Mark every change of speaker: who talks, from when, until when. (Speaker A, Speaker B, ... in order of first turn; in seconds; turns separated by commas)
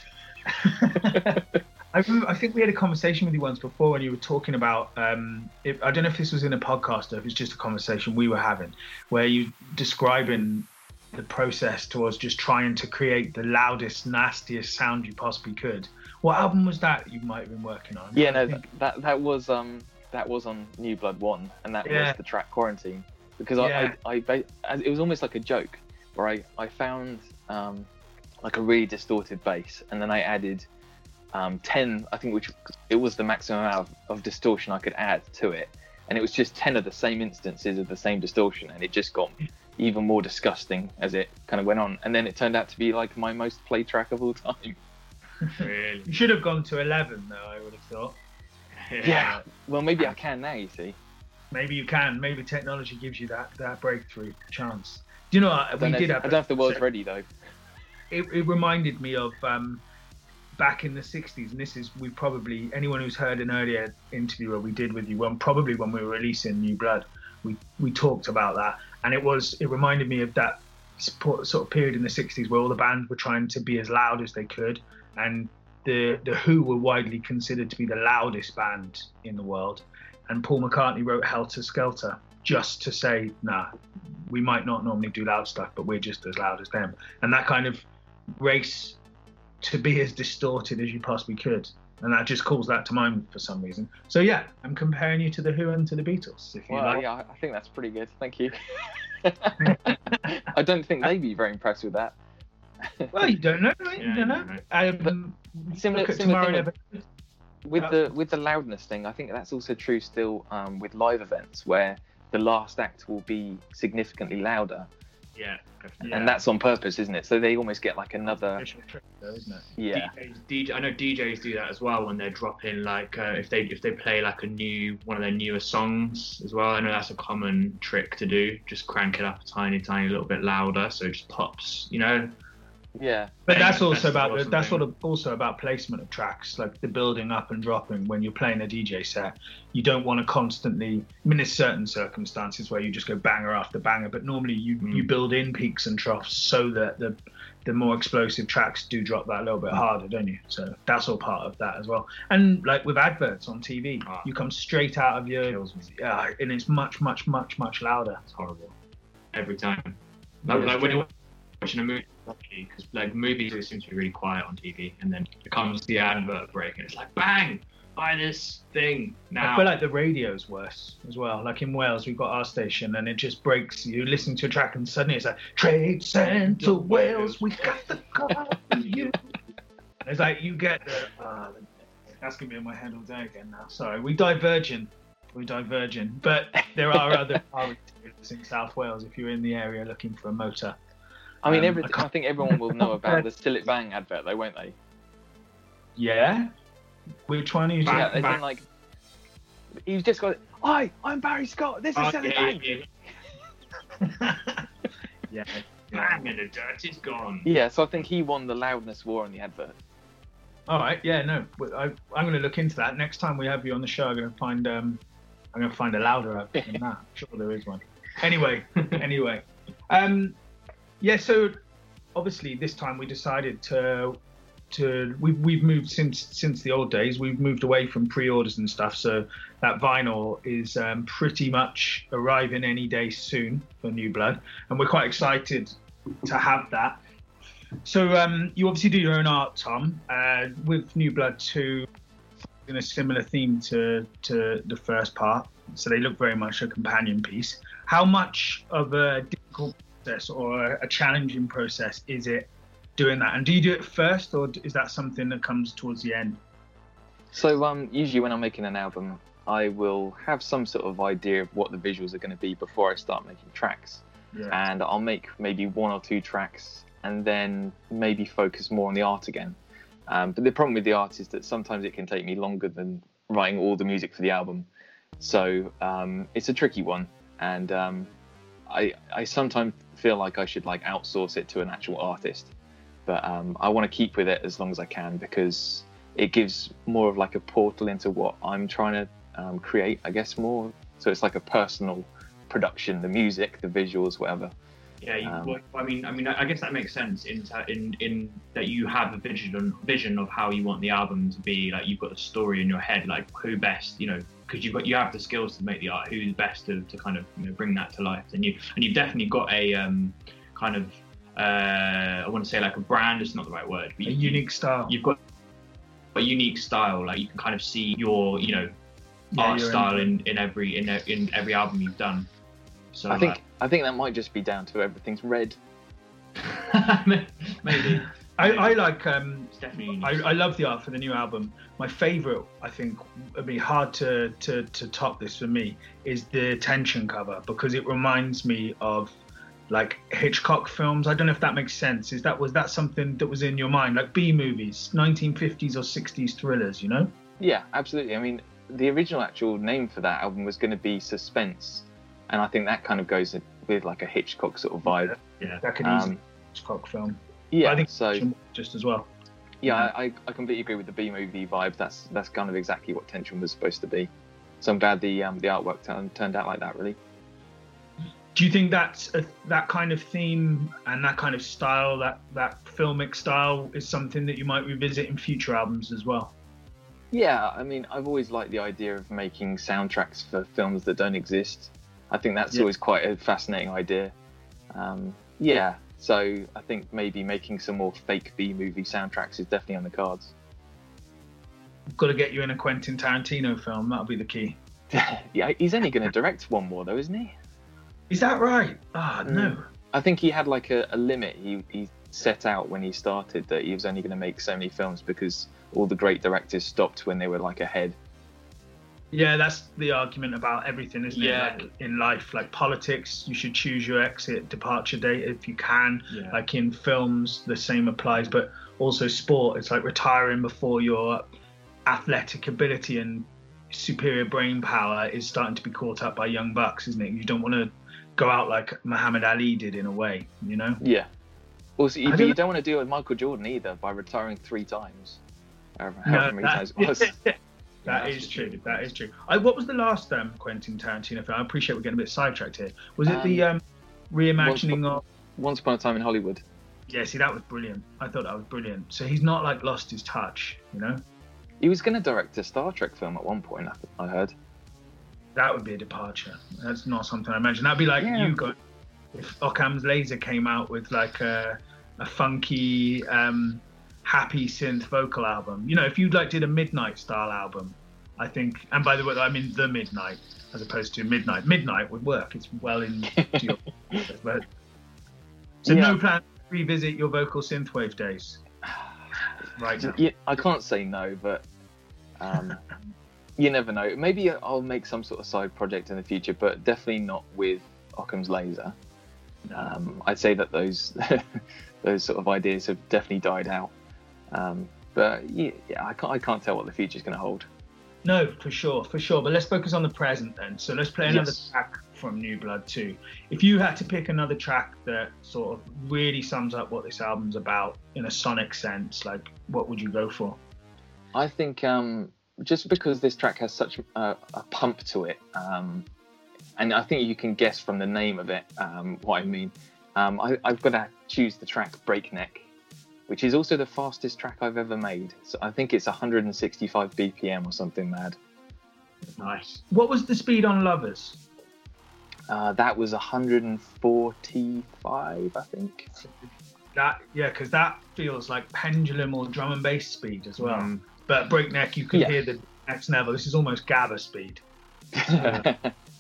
Speaker A: 0.5-1.4, Speaker B: 0.9-1.4, Speaker A: 1.9-18.6, Speaker B: 18.1-27.9, Speaker A: 21.8-22.2, Speaker A: 23.6-24.0, Speaker B: 28.4-30.7, Speaker B: 31.3-44.8, Speaker A: 45.5-48.2, Speaker C: 45.6-46.1, Speaker C: 48.8-49.4, Speaker B: 49.0-51.0, Speaker A: 51.5-56.8, Speaker B: 55.8-57.3, Speaker A: 58.1-59.8, Speaker A: 60.6-89.0, Speaker A: 89.6-97.0, Speaker B: 96.7-102.2, Speaker A: 99.6-100.4, Speaker B: 102.8-103.3, Speaker A: 103.1-107.0, Speaker C: 104.0-104.6, Speaker B: 105.7-106.7, Speaker B: 107.7-114.9, Speaker C: 115.3-116.3, Speaker A: 116.0-116.4, Speaker B: 116.1-118.7, Speaker A: 118.6-119.7, Speaker B: 119.8-120.1, Speaker C: 119.9-132.3, Speaker B: 133.0-133.3, Speaker A: 133.5-158.2, Speaker C: 133.5-134.8, Speaker C: 144.8-145.1, Speaker C: 155.4-155.9, Speaker C: 158.2-158.8, Speaker C: 159.3-169.8, Speaker A: 160.5-161.0, Speaker A: 169.4-179.2, Speaker C: 176.2-177.9, Speaker A: 180.0-181.7, Speaker A: 182.2-190.8, Speaker B: 186.9-187.2, Speaker B: 191.4-194.8, Speaker A: 191.5-193.2, Speaker A: 196.0-196.5, Speaker A: 197.3-198.4, Speaker B: 197.9-198.7, Speaker B: 199.8-202.7, Speaker C: 201.9-202.9, Speaker A: 204.0-204.7, Speaker A: 205.3-206.2, Speaker C: 205.9-207.5, Speaker B: 207.4-209.8, Speaker A: 210.7-215.0, Speaker A: 215.5-220.4, Speaker A: 221.0-221.6, Speaker A: 222.2-224.2, Speaker A: 224.7-237.0, Speaker A: 237.8-241.9, Speaker A: 242.7-256.4, Speaker B: 257.3-274.7, Speaker B: 275.2-278.1, Speaker B: 278.7-282.5, Speaker B: 283.1-294.5, Speaker C: 295.0-315.2, Speaker B: 295.2-295.6, Speaker A: 314.1-314.9, Speaker C: 316.1-318.7, Speaker A: 319.3-320.1, Speaker C: 319.4-322.3, Speaker C: 322.9-323.4, Speaker B: 323.1-325.6, Speaker C: 326.4-328.8, Speaker A: 328.0-339.1, Speaker C: 329.5-330.5, Speaker A: 339.7-347.1, Speaker B: 347.4-355.2, Speaker A: 354.9-359.1, Speaker B: 355.8-356.2, Speaker B: 357.5-358.3, Speaker B: 359.6-364.1, Speaker A: 359.6-359.9, Speaker B: 364.6-367.0, Speaker A: 368.4-376.3, Speaker B: 377.1-384.1, Speaker B: 384.7-390.3, Speaker A: 391.9-394.6, Speaker B: 394.9-397.4, Speaker A: 398.1-399.6, Speaker B: 399.3-408.0, Speaker A: 409.1-421.3, Speaker C: 411.1-411.7, Speaker C: 416.1-416.4, Speaker A: 421.9-430.8, Speaker B: 430.8-431.1, Speaker B: 431.8-435.2, Speaker A: 432.1-432.4, Speaker B: 435.8-437.1, Speaker A: 436.1-445.0, Speaker C: 437.9-438.9, Speaker B: 443.1-443.4, Speaker B: 444.4-446.4, Speaker A: 446.9-451.0, Speaker B: 451.6-454.4, Speaker A: 455.4-458.6, Speaker B: 458.0-458.4, Speaker A: 459.1-474.4, Speaker A: 475.6-478.4, Speaker B: 475.6-476.0, Speaker A: 479.6-480.0, Speaker B: 479.8-481.4, Speaker B: 482.2-482.6, Speaker B: 483.4-488.8, Speaker B: 489.6-493.7, Speaker B: 494.3-497.5, Speaker A: 498.1-510.4, Speaker B: 501.1-501.4, Speaker B: 511.1-515.9, Speaker B: 516.6-522.5, Speaker B: 523.1-528.2, Speaker C: 529.1-529.6, Speaker A: 529.7-531.2, Speaker B: 532.3-535.9, Speaker A: 536.8-544.4, Speaker C: 540.4-540.9, Speaker B: 545.0-545.8, Speaker C: 545.1-545.5